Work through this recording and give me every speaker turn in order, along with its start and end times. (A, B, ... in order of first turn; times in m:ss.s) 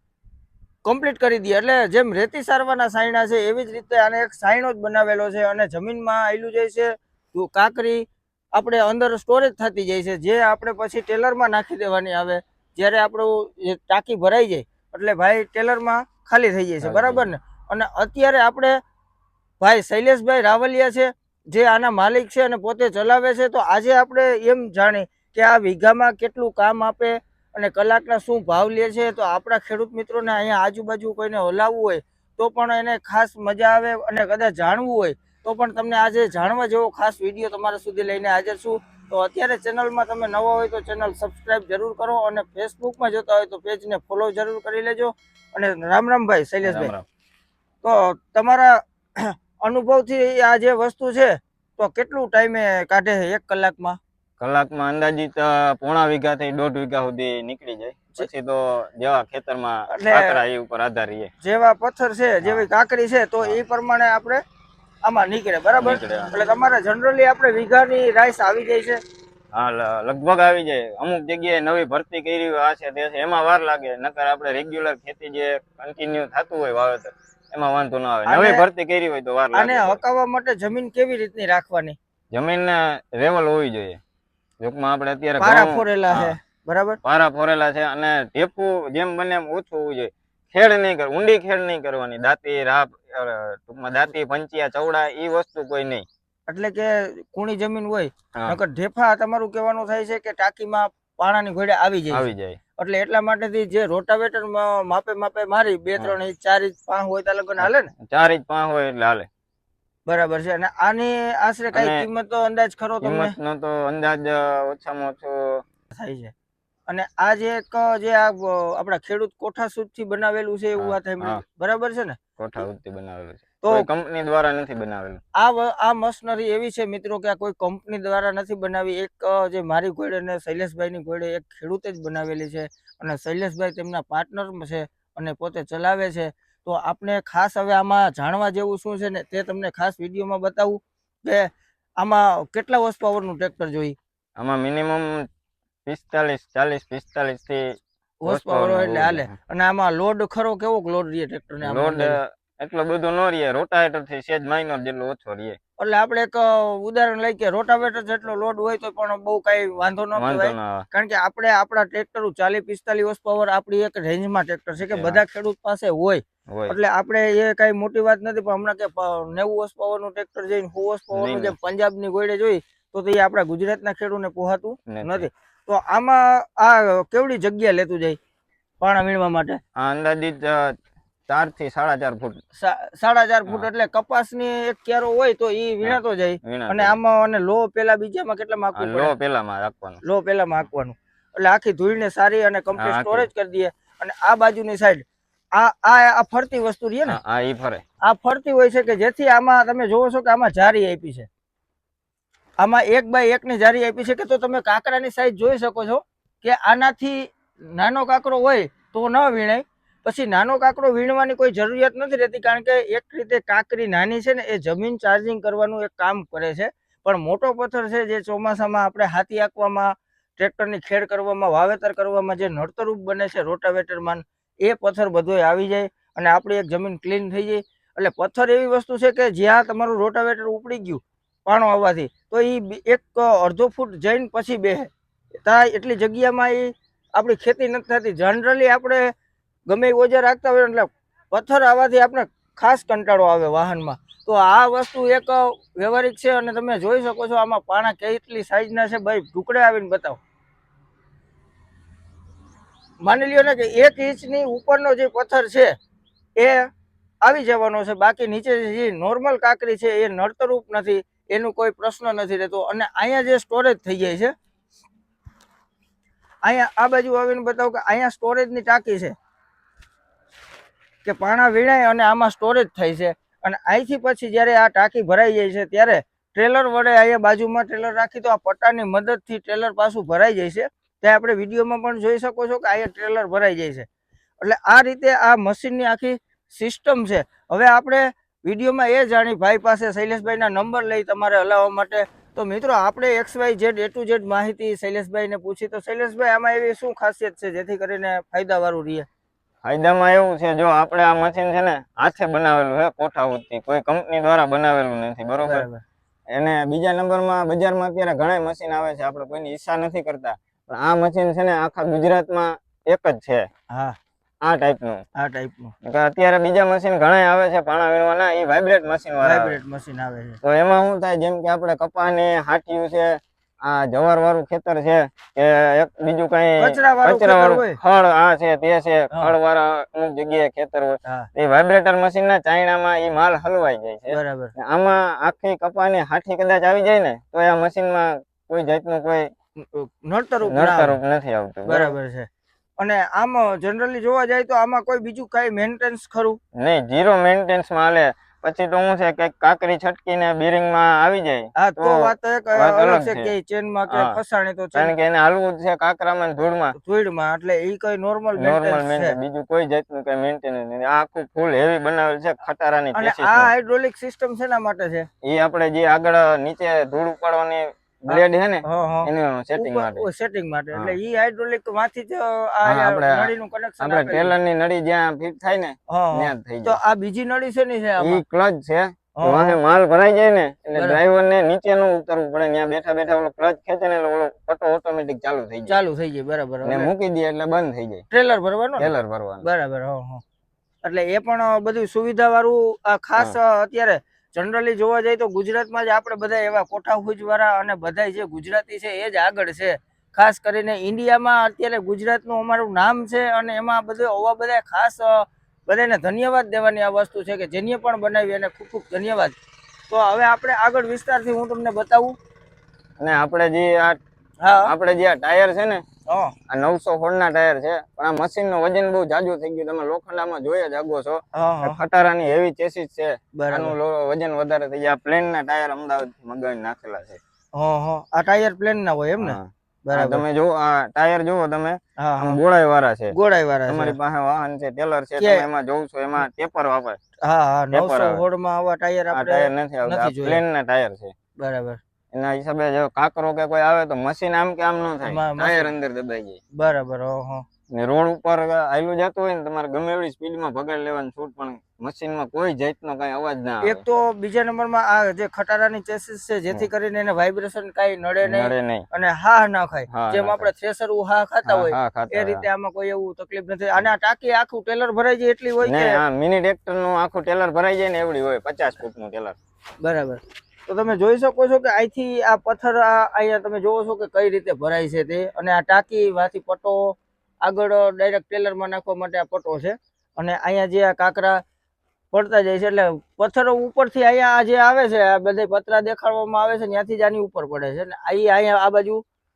0:00.8-0:18.8 A
0:16.8-0:17.3 B
0:19.6-0:46.9 A
0:46.6-0:47.1 B
0:47.8-0:54.0 A
0:54.4-1:01.3 B
0:59.9-1:00.4 A
1:01.4-1:04.4 A
1:05.0-1:09.0 A
1:05.8-1:06.3 B
1:09.5-1:20.0 B
1:18.3-1:18.6 A
1:19.5-1:22.0 A
1:22.3-1:24.0 B
1:24.6-1:26.4 B
1:25.4-1:27.0 A
1:27.0-1:36.1 B
1:36.5-1:47.9 A
1:42.1-1:42.6 B
1:47.6-1:49.3 B
1:50.1-1:53.4 A
1:51.7-1:52.1 B
1:53.0-1:55.6 B
1:55.9-1:56.3 A
1:56.9-2:02.2 A
2:00.8-2:01.4 B
2:02.4-2:05.2 B
2:03.6-2:03.9 A
2:05.4-2:21.5 A
2:22.0-2:24.0 A
2:24.4-2:25.3 B
2:25.9-2:29.3 B
2:28.2-2:32.2 A
2:31.6-2:35.6 B
2:35.8-2:58.2 A
2:40.2-2:40.9 B
2:44.8-2:45.2 B
2:46.5-2:46.8 B
2:51.1-2:51.5 B
2:54.9-2:55.3 B
2:58.8-2:59.6 A
2:59.8-3:00.8 B
3:01.3-3:02.4 B
3:02.6-3:09.1 A
3:05.8-3:07.0 B
3:08.8-3:10.0 B
3:10.0-3:15.0 A
3:12.8-3:13.3 B
3:15.6-3:17.2 A
3:17.1-3:17.8 B
3:18.0-3:21.3 A
3:22.6-3:54.9 A
3:55.4-3:59.1 A
3:59.7-4:10.2 A
4:13.0-4:15.8 A
4:16.4-4:16.7 A
4:17.2-4:24.3 A
4:26.4-4:29.1 A
4:31.0-4:43.9 A
4:44.4-4:59.1 A
4:59.6-5:05.7 B
5:05.4-5:05.8 A
5:06.3-5:13.5 B
5:13.7-5:14.0 A
5:14.4-5:15.1 B
5:15.2-5:15.7 A
5:15.8-5:19.6 B
5:19.2-5:20.4 A
5:20.4-5:39.3 B
5:26.6-5:27.8 A
5:34.1-5:34.5 A
5:39.7-5:41.0 A
5:40.5-5:41.9 B
5:41.7-5:42.3 A
5:42.8-5:46.4 A
5:46.6-5:53.3 B
5:51.6-5:54.9 A
5:53.9-5:54.2 B
5:54.8-5:56.8 B
5:56.8-5:59.2 A
5:58.4-6:03.5 B
6:02.9-6:05.1 A
6:05.2-6:10.0 B
6:08.1-6:14.3 A
6:12.6-6:16.8 B
6:15.9-6:18.2 A
6:18.0-6:25.8 B
6:19.2-6:19.6 A
6:20.8-6:21.0 A
6:25.7-6:26.9 A
6:26.6-6:28.0 B
6:28.1-6:30.2 A
6:28.8-6:29.4 B
6:30.8-6:49.4 A
6:49.9-6:52.2 A
6:53.0-6:54.0 B
6:54.4-6:54.7 A
6:54.6-6:55.8 B
6:56.1-6:56.4 A
6:56.5-7:07.2 B
7:01.3-7:01.8 A
7:03.4-7:03.8 A
7:07.5-7:10.2 A
7:09.2-7:13.2 B
7:12.0-7:12.4 A
7:13.1-7:14.0 A
7:13.7-7:17.0 B
7:15.2-7:15.5 A
7:17.2-7:20.4 A
7:17.7-7:18.2 B
7:19.1-7:21.1 B
7:21.4-7:21.8 A
7:22.1-7:26.4 B
7:25.0-7:25.7 A
7:26.5-7:27.4 A
7:27.7-7:33.8 B
7:33.6-7:46.0 A
7:38.2-7:38.9 B
7:39.9-7:40.5 B
7:41.5-7:42.4 B
7:45.6-7:49.4 B
7:49.8-8:01.4 A
8:02.1-8:09.0 A